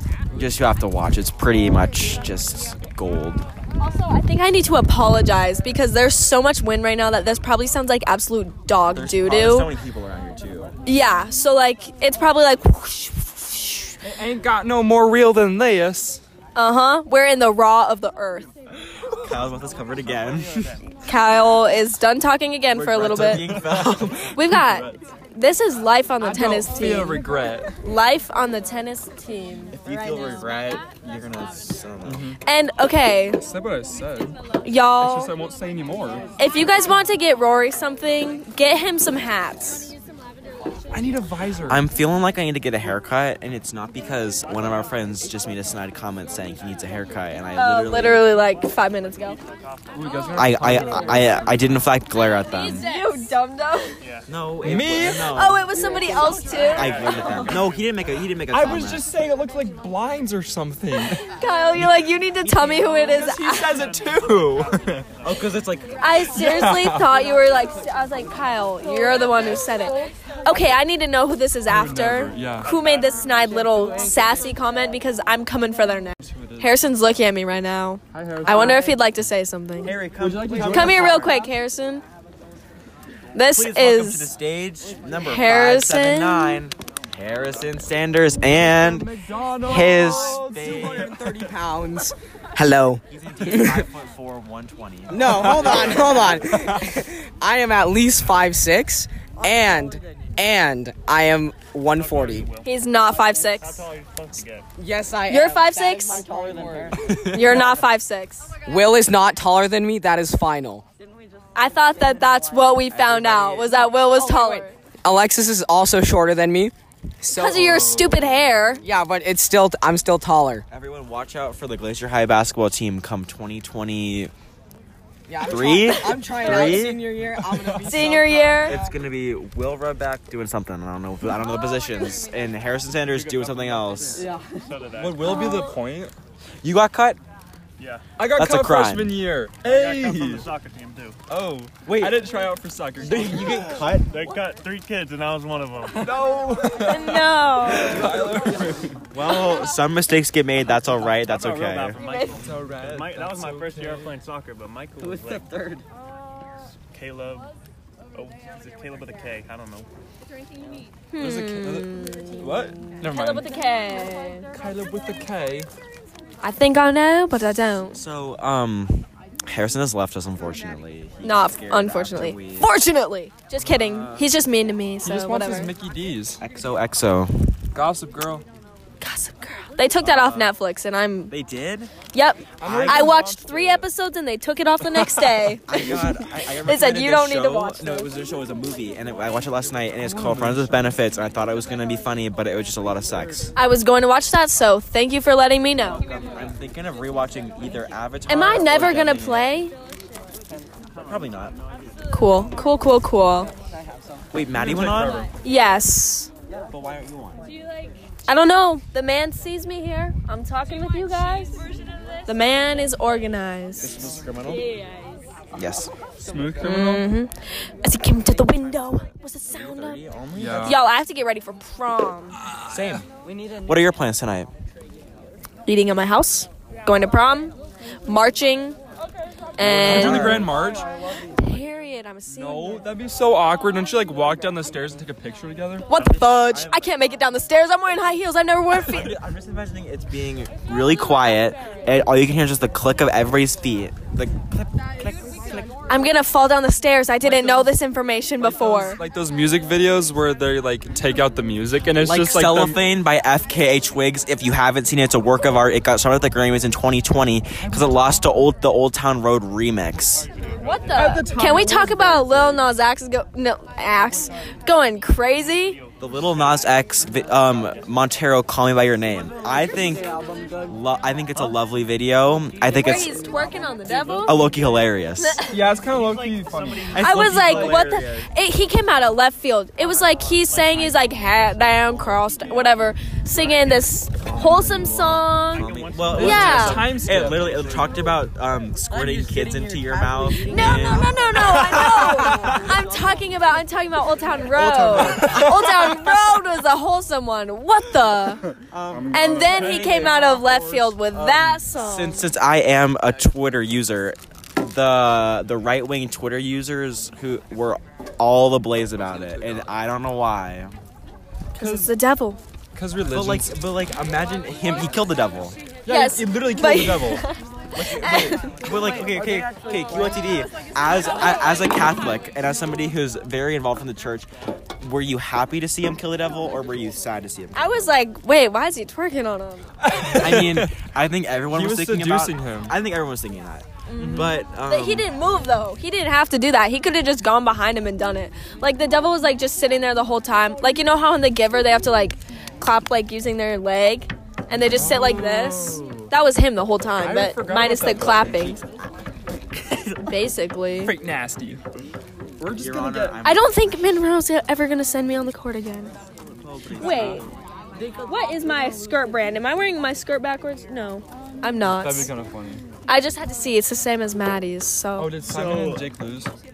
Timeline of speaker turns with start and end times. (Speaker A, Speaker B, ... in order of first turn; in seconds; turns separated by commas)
Speaker A: 0.3-3.5, Speaker B: 3.8-9.7, Speaker A: 8.9-10.7, Speaker B: 10.8-14.0, Speaker C: 14.0-16.2, Speaker B: 16.6-18.5, Speaker A: 19.2-20.7, Speaker D: 19.6-20.8, Speaker B: 20.9-23.6, Speaker A: 22.7-24.9, Speaker C: 23.2-24.0, Speaker B: 24.3-27.2, Speaker C: 26.2-27.7, Speaker B: 27.8-29.8, Speaker A: 29.7-32.2, Speaker C: 32.0-32.4, Speaker B: 32.4-33.4, Speaker C: 33.4-34.4, Speaker B: 34.6-35.3, Speaker C: 35.0-36.3, Speaker B: 36.4-39.9, Speaker C: 40.9-41.8, Speaker A: 41.7-48.3, Speaker B: 47.5-49.4, Speaker D: 49.4-50.7, Speaker C: 49.9-51.8, Speaker A: 50.3-52.9, Speaker B: 52.5-54.0, Speaker D: 54.0-54.3, Speaker A: 54.3-55.7, Speaker C: 54.6-55.3, Speaker B: 55.2-57.5, Speaker D: 56.1-57.9, Speaker A: 56.7-59.0, Speaker C: 58.5-61.2, Speaker B: 61.1-63.8, Speaker C: 62.8-65.1, Speaker D: 63.5-65.8, Speaker A: 65.2-66.0, Speaker B: 66.0-80.0, Speaker C: 66.3-67.1, Speaker C: 71.7-72.7, Speaker D: 72.6-73.2, Speaker E: 73.7-74.1, Speaker C: 76.2-76.7, Speaker C: 78.1-79.0, Speaker A: 79.8-81.5, Speaker C: 80.2-81.2, Speaker B: 80.5-82.0, Speaker B: 83.3-84.3, Speaker A: 83.5-91.2, Speaker B: 85.2-86.6, Speaker C: 88.5-91.5, Speaker E: 90.3-93.8, Speaker A: 93.1-96.5, Speaker E: 95.1-102.5, Speaker C: 95.2-96.8, Speaker D: 101.9-104.7, Speaker B: 102.6-103.8, Speaker E: 104.8-107.1, Speaker B: 105.3-106.3, Speaker C: 106.9-107.6, Speaker B: 107.1-108.5, Speaker E: 108.7-110.8, Speaker B: 111.5-114.7, Speaker A: 112.9-113.7, Speaker E: 113.7-118.0, Speaker B: 117.3-118.8, Speaker C: 117.5-118.3, Speaker E: 118.8-120.6, Speaker A: 120.7-124.3, Speaker E: 125.3-128.9, Speaker A: 125.4-127.1, Speaker C: 127.2-128.0, Speaker B: 127.8-128.8, Speaker A: 128.6-134.3, Speaker D: 133.1-135.5, Speaker E: 134.1-134.6, Speaker C: 135.0-136.1, Speaker B: 135.3-135.7, Speaker A: 136.6-137.2, Speaker D: 137.8-138.0, Speaker C: 138.2-140.5, Speaker A: 138.3-139.1, Speaker D: 139.6-141.2, Speaker C: 141.3-143.8, Speaker A: 141.8-142.2, Speaker A: 143.0-144.2, Speaker D: 144.0-146.2, Speaker C: 145.9-149.0, Speaker B: 146.8-148.3, Speaker A: 149.1-152.0, Speaker D: 151.1-155.5, Speaker B: 152.0-152.4, Speaker C: 152.3-154.1, Speaker A: 155.0-155.8, Speaker D: 156.9-157.5, Speaker D: 158.1-159.9, Speaker B: 161.1-164.5, Speaker C: 161.2-163.5, Speaker C: 164.5-165.7, Speaker B: 166.4-168.0, Speaker A: 167.9-172.7, Speaker B: 171.2-175.7, Speaker A: 173.6-174.3, Speaker C: 175.0-176.4, Speaker A: 176.4-177.5, Speaker C: 177.7-178.4, Speaker B: 179.0-181.3, Speaker A: 180.0-180.6, Speaker A: 181.3-181.9, Speaker B: 182.1-188.1, Speaker C: 182.6-183.8, Speaker A: 182.6-183.1, Speaker C: 184.9-185.3, Speaker A: 185.7-193.5, Speaker C: 190.0-190.9, Speaker B: 193.6-196.0, Speaker A: 195.9-199.5, Speaker B: 198.3-199.7, Speaker A: 201.0-201.6, Speaker B: 202.1-203.5, Speaker A: 204.3-205.3, Speaker C: 204.5-205.3, Speaker B: 205.4-206.3, Speaker A: 206.7-207.5, Speaker B: 208.3-211.6, Speaker B: 212.2-214.2, Speaker A: 213.8-214.6, Speaker A: 215.5-215.9, Speaker C: 216.2-217.1, Speaker B: 216.6-220.0, Speaker A: 219.5-220.8, Speaker C: 220.3-220.8, Speaker B: 220.6-222.4, Speaker C: 222.7-223.0, Speaker A: 222.7-223.1, Speaker E: 223.3-223.7, Speaker A: 223.6-224.5, Speaker B: 225.7-228.8, Speaker B: 229.6-230.5, Speaker C: 229.6-230.9, Speaker A: 229.6-230.6, Speaker B: 231.2-232.8, Speaker C: 232.3-235.9, Speaker B: 235.9-239.1, Speaker A: 235.9-236.9, Speaker A: 238.8-245.7, Speaker B: 245.9-249.0, Speaker C: 247.2-247.7, Speaker C: 248.4-252.8, Speaker A: 252.0-260.3, Speaker C: 257.6-258.1, Speaker D: 260.4-261.1, Speaker B: 260.6-265.8, Speaker C: 260.9-262.4, Speaker A: 266.0-270.1, Speaker D: 266.0-266.8, Speaker D: 267.4-267.7, Speaker E: 270.0-270.7, Speaker A: 270.6-273.2, Speaker B: 272.7-274.5, Speaker A: 274.2-275.4, Speaker B: 275.2-275.6, Speaker C: 275.5-277.6, Speaker D: 275.8-277.7, Speaker A: 276.9-278.3, Speaker B: 276.9-286.9, Speaker D: 280.3-281.2, Speaker D: 282.1-282.7, Speaker C: 284.3-285.2, Speaker D: 285.5-288.0, Speaker A: 285.5-292.5, Speaker C: 286.1-287.7, Speaker E: 288.9-291.0, Speaker B: 290.4-298.4, Speaker E: 291.8-292.7, Speaker A: 294.6-295.5, Speaker C: 294.6-296.0, Speaker C: 298.5-301.6, Speaker A: 298.7-300.9, Speaker B: 299.1-302.3, Speaker A: 301.4-310.7, Speaker B: 311.6-312.4, Speaker C: 311.6-311.9, Speaker C: 312.7-313.6, Speaker A: 313.1-315.6, Speaker C: 315.9-317.2, Speaker B: 315.9-318.6, Speaker C: 317.8-318.3, Speaker A: 317.8-327.7, Speaker E: 318.7-320.4, Speaker B: 327.5-330.1, Speaker C: 329.8-330.8, Speaker A: 330.1-335.1, Speaker C: 331.5-332.8, Speaker B: 333.9-348.6, Speaker C: 334.0-334.4, Speaker C: 344.6-346.1, Speaker C: 347.0-348.7, Speaker B: 350.0-350.9, Speaker C: 350.8-351.6, Speaker C: 352.4-353.2, Speaker A: 352.5-353.8, Speaker B: 353.2-355.9, Speaker A: 356.3-357.3, Speaker B: 356.7-357.2, Speaker C: 356.9-357.2, Speaker B: 357.9-362.1, Speaker C: 361.6-362.6, Speaker B: 362.9-365.1, Speaker C: 365.0-366.3, Speaker A: 365.3-365.8